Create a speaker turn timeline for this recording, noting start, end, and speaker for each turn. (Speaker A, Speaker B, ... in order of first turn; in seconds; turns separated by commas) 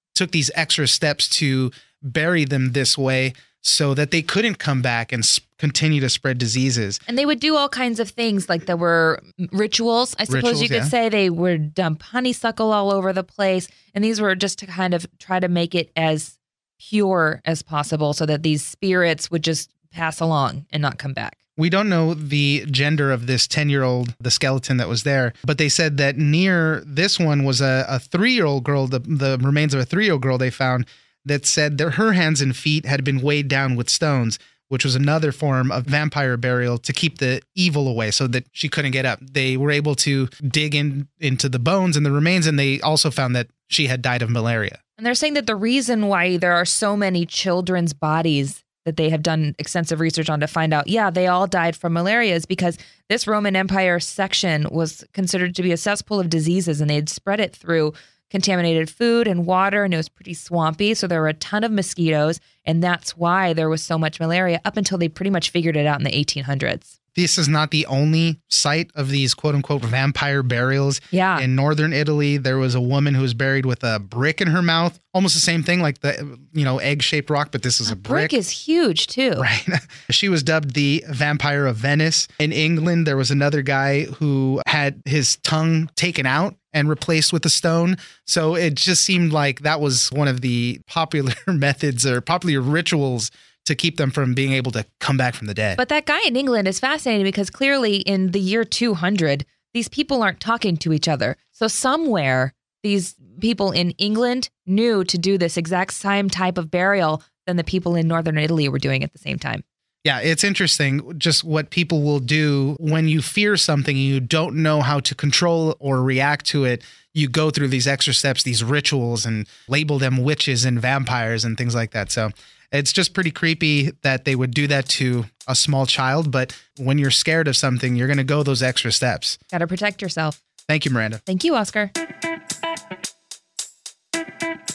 Speaker A: 0.1-7.0, Speaker B: 7.1-21.4, Speaker A: 10.3-10.9, Speaker A: 21.6-44.8, Speaker B: 45.0-66.9, Speaker A: 67.2-78.3, Speaker B: 71.1-71.5, Speaker B: 77.9-79.5, Speaker A: 79.4-95.8, Speaker B: 95.8-109.6, Speaker A: 110.0-129.4, Speaker B: 129.5-130.4, Speaker A: 130.7-131.2, Speaker B: 131.3-131.9